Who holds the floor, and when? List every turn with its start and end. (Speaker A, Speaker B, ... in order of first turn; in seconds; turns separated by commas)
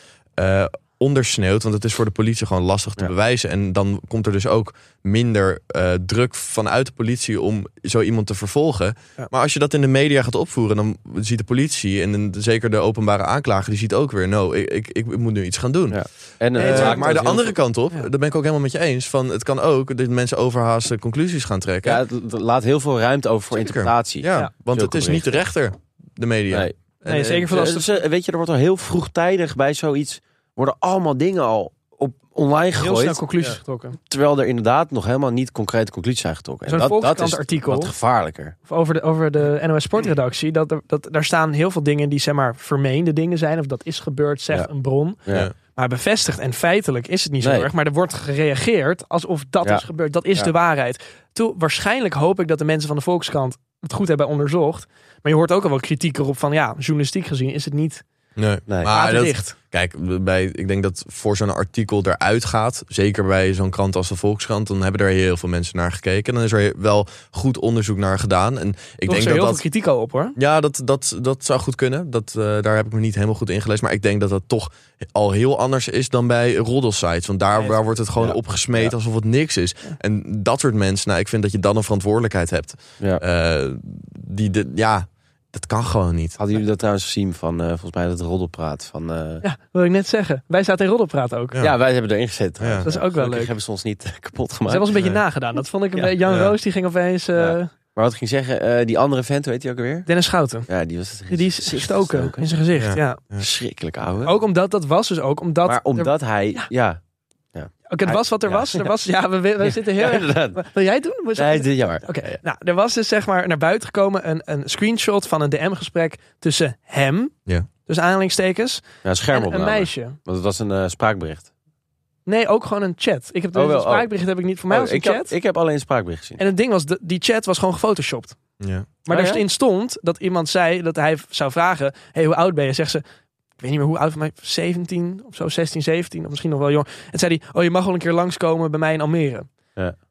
Speaker A: 0.4-16.0, Speaker B: 15.9-17.5, Speaker A: 16.5-22.0, Speaker C: 16.6-17.2, Speaker B: 21.8-25.4, Speaker A: 23.5-27.5, Speaker C: 27.1-28.0, Speaker B: 27.5-33.2, Speaker C: 32.8-34.0, Speaker B: 34.1-38.5, Speaker C: 36.7-37.9, Speaker C: 38.7-45.2, Speaker C: 45.8-58.0, Speaker B: 47.4-47.7, Speaker A: 58.4-69.6, Speaker C: 58.9-59.5, Speaker C: 69.0-70.4, Speaker A: 70.4-86.4, Speaker B: 78.2-78.9, Speaker B: 86.4-89.4, Speaker C: 89.4-91.6, Speaker B: 91.6-94.9, Speaker A: 92.6-92.9, Speaker C: 92.8-93.5, Speaker C: 94.7-97.7, Speaker A: 95.0-95.2, Speaker A: 96.3-96.5, Speaker B: 97.4-100.1, Speaker C: 100.0-100.7, Speaker B: 100.7-102.5, Speaker C: 101.3-103.2, Speaker A: 102.8-103.5, Speaker B: 103.4-104.3, Speaker C: 104.2-106.7, Speaker B: 105.7-107.0, Speaker B: 107.5-108.9, Speaker C: 107.9-117.3, Speaker B: 109.6-110.6, Speaker B: 111.4-112.4, Speaker C: 117.9-120.2, Speaker B: 119.0-121.5, Speaker C: 122.2-125.3, Speaker B: 123.5-124.1, Speaker B: 124.7-126.4, Speaker C: 126.4-128.4, Speaker A: 128.6-128.9, Speaker C: 129.1-133.0, Speaker B: 129.1-129.4, Speaker C: 133.6-139.5